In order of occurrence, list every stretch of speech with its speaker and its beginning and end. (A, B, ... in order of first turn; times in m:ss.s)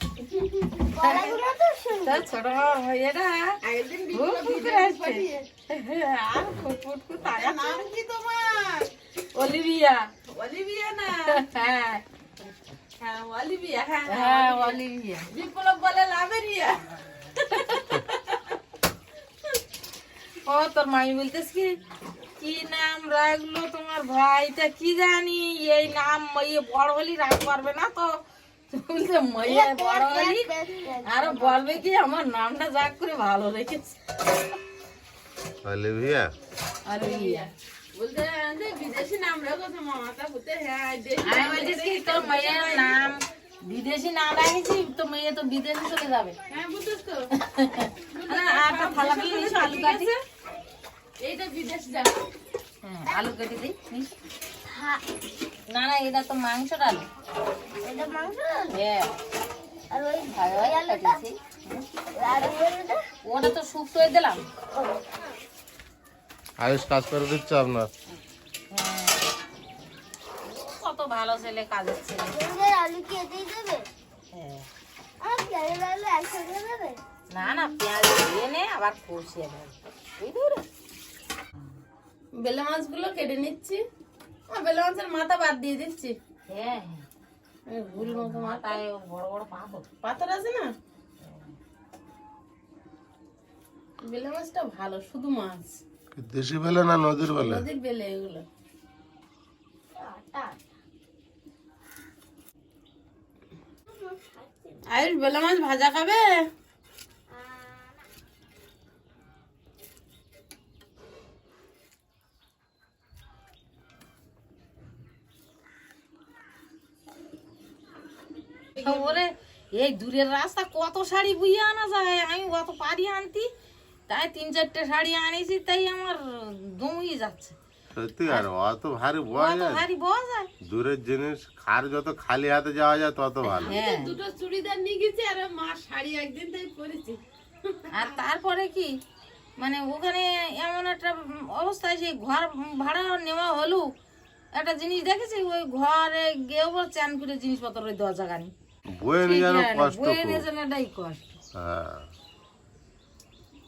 0:00.2-0:00.7 A
0:00.8-0:02.2 B
0:01.0-0:01.4 C
0:02.0-0:03.6 C
0:03.6-0:05.4 A
0:04.1-0:07.8 C
0:07.2-0:08.9 A
0:09.3-0:10.1 C
0:10.3-0:11.4 A
0:11.2-0:12.0 C
0:13.0-0:14.8 A
0:14.1-0:15.3 C
0:15.3-0:18.6 A
0:20.5-0:21.7 C
0:22.4-0:28.1 C
0:28.7-0:30.5 C
0:29.4-0:31.8 B
0:31.0-0:34.0 C
0:35.6-0:36.3 D
0:36.8-0:37.5 C
0:37.0-0:43.0 A
0:41.2-0:46.4 C
0:46.5-0:47.3 A
0:47.3-0:50.1 C
0:48.1-0:50.2 A
0:51.2-0:52.1 A
0:52.8-0:54.1 C
0:54.6-0:55.0 B
0:55.7-0:57.1 C
0:57.8-0:58.8 B
0:58.7-0:59.1 C
0:59.9-1:01.2 B
1:00.4-1:01.3 A
1:02.1-1:03.0 B
1:03.2-1:04.4 C
1:06.6-1:07.9 D
1:08.7-1:09.2 C
1:10.4-1:12.4 C
1:12.3-1:13.9 B
1:14.3-1:14.7 C
1:15.2-1:17.0 B
1:17.3-1:20.6 C
1:22.4-1:23.8 A
1:24.5-1:26.2 A
1:26.5-1:27.0 C
1:27.7-1:28.8 A
1:27.9-1:29.8 C
1:30.0-1:30.7 A
1:31.2-1:31.5 C
1:34.0-1:35.8 A
1:36.1-1:37.6 D
1:37.3-1:38.4 A
1:40.0-1:40.6 B
1:43.9-1:44.8 B
1:44.9-1:46.3 A
1:47.3-1:48.0 B
1:58.8-2:03.5 C
1:58.8-1:59.1 A
2:04.1-2:07.6 C
2:07.9-2:09.8 D
2:09.3-2:10.5 C
2:10.6-2:13.8 D
2:13.5-2:18.1 A
2:13.6-2:14.2 C
2:17.9-2:18.9 C
2:19.6-2:23.9 C
2:24.5-2:28.5 C
2:28.9-2:30.4 D
2:29.2-2:31.4 C
2:31.5-2:32.1 D